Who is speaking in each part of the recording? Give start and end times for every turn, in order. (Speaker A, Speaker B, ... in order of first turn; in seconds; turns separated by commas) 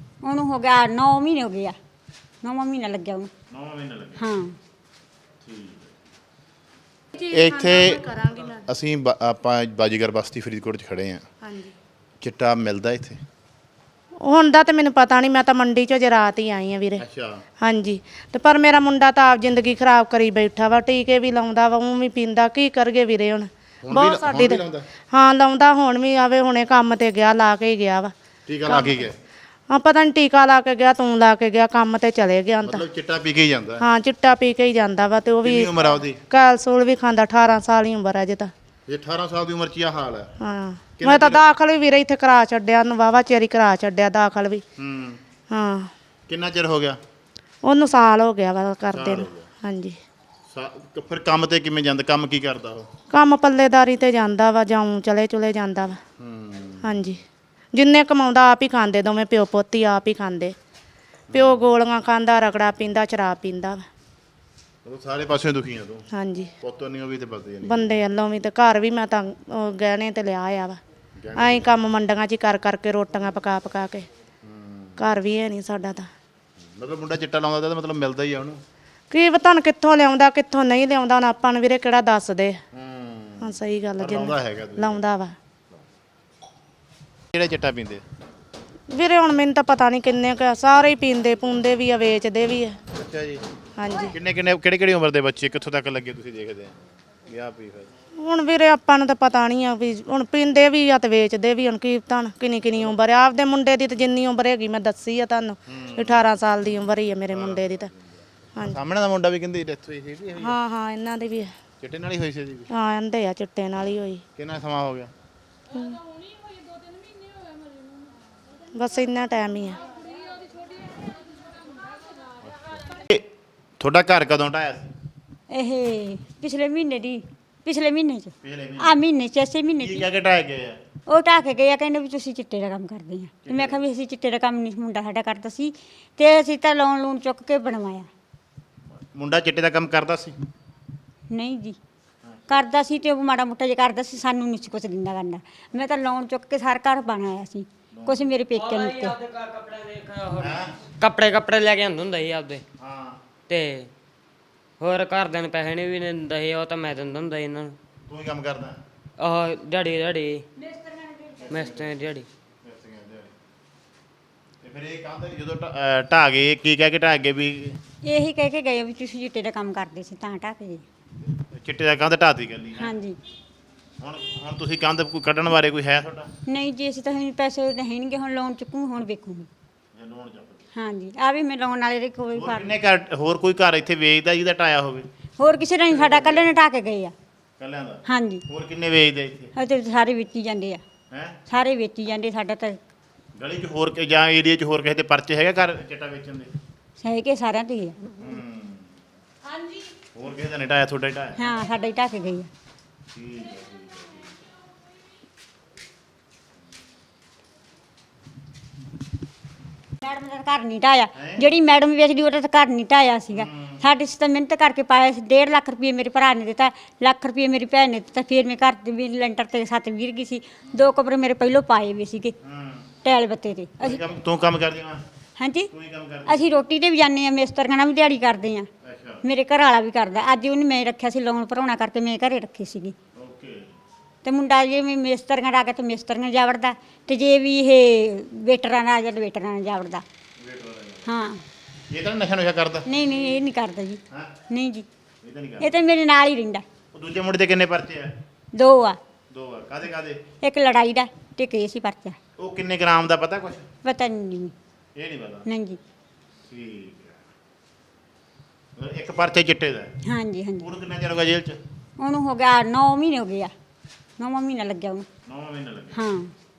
Speaker A: 0.2-1.7, Speaker A: 2.4-3.3, Speaker B: 3.5-4.2, Speaker A: 4.2-4.5, Speaker B: 5.4-5.9, Speaker C: 7.2-8.7, Speaker B: 7.3-11.2, Speaker C: 11.4-11.7, Speaker B: 12.2-13.2, Speaker C: 14.2-17.0, Speaker B: 17.0-17.4, Speaker C: 17.6-24.6, Speaker B: 23.8-24.9, Speaker C: 25.1-28.1, Speaker B: 28.5-29.1, Speaker C: 28.6-29.1, Speaker C: 29.7-32.8, Speaker B: 32.6-33.8, Speaker C: 33.8-35.7, Speaker B: 35.4-36.2, Speaker C: 36.3-38.5, Speaker B: 38.9-40.3, Speaker C: 40.4-44.6, Speaker B: 41.0-41.4, Speaker B: 44.8-45.2, Speaker C: 45.5-45.9, Speaker B: 46.3-47.0, Speaker C: 47.6-50.0, Speaker B: 48.9-49.5, Speaker B: 50.5-52.9, Speaker C: 53.1-56.0, Speaker B: 56.2-57.1, Speaker C: 56.8-57.2, Speaker C: 57.7-60.5, Speaker B: 61.3-61.6, Speaker C: 61.3-63.8, Speaker B: 64.8-66.0, Speaker C: 66.1-66.5, Speaker B: 66.6-68.0, Speaker C: 67.6-70.8, Speaker B: 71.2-71.7, Speaker C: 71.3-74.1, Speaker B: 74.4-75.0, Speaker C: 75.0-76.1, Speaker B: 76.8-78.6, Speaker C: 79.1-82.6, Speaker B: 82.7-85.0, Speaker C: 83.4-85.3, Speaker B: 87.3-88.0, Speaker C: 88.9-92.8, Speaker B: 92.9-93.4, Speaker C: 93.8-94.1, Speaker B: 94.1-96.7, Speaker B: 97.2-97.9, Speaker C: 98.2-107.9, Speaker B: 105.7-106.2, Speaker B: 107.3-108.0, Speaker B: 108.6-110.6, Speaker C: 110.4-111.5, Speaker B: 111.8-112.7, Speaker C: 112.7-114.2, Speaker B: 114.4-115.1, Speaker C: 115.7-116.0, Speaker C: 118.7-119.8, Speaker B: 122.8-123.2, Speaker B: 123.8-124.9, Speaker A: 125.5-130.1, Speaker B: 128.4-128.9, Speaker B: 129.8-130.8, Speaker A: 131.1-138.1, Speaker B: 133.4-133.8, Speaker B: 138.9-140.3, Speaker A: 141.3-141.8, Speaker B: 142.2-142.6, Speaker A: 142.5-149.2, Speaker B: 147.9-148.3, Speaker D: 148.5-152.6, Speaker B: 150.4-150.8, Speaker B: 152.8-153.2, Speaker D: 153.5-153.9, Speaker D: 154.8-157.8, Speaker B: 158.1-158.8, Speaker D: 159.2-160.4, Speaker A: 160.6-161.7, Speaker B: 161.4-161.9, Speaker D: 161.5-162.3, Speaker B: 162.6-163.3, Speaker B: 164.6-167.8, Speaker A: 168.0-170.8, Speaker B: 171.3-172.9, Speaker A: 172.8-173.2, Speaker B: 174.0-176.3, Speaker A: 176.5-179.5, Speaker B: 179.9-180.6, Speaker A: 180.7-182.8, Speaker B: 182.3-185.1, Speaker A: 185.4-187.1, Speaker B: 185.9-186.5, Speaker B: 187.6-189.5, Speaker A: 188.1-188.4, Speaker A: 189.5-190.8, Speaker B: 191.1-191.4, Speaker A: 191.5-192.8, Speaker B: 193.4-196.5, Speaker A: 197.0-198.0, Speaker B: 198.2-198.9, Speaker B: 200.1-201.5, Speaker A: 201.4-202.5, Speaker B: 203.1-204.3, Speaker A: 210.0-222.3, Speaker B: 211.1-211.4, Speaker B: 213.3-213.8, Speaker B: 222.4-222.9, Speaker A: 223.0-224.0, Speaker B: 223.8-225.0, Speaker A: 225.4-225.7, Speaker B: 225.7-226.5, Speaker A: 226.2-228.7, Speaker B: 228.8-229.2, Speaker A: 229.2-232.9, Speaker B: 233.2-233.8, Speaker A: 234.2-240.0, Speaker B: 240.4-241.1, Speaker A: 241.1-241.4, Speaker B: 241.9-242.9, Speaker A: 242.9-244.8, Speaker B: 245.2-245.8, Speaker A: 245.6-246.6, Speaker B: 246.9-248.1, Speaker A: 248.5-249.0, Speaker B: 249.3-250.2, Speaker A: 250.4-252.2, Speaker B: 252.4-253.7, Speaker A: 253.8-254.5, Speaker B: 254.9-255.4, Speaker A: 255.4-255.8, Speaker B: 256.4-257.2, Speaker B: 258.8-259.9, Speaker A: 260.1-260.7, Speaker B: 260.6-261.6, Speaker A: 262.0-263.5, Speaker A: 264.2-265.1, Speaker B: 265.2-266.0, Speaker A: 265.9-266.3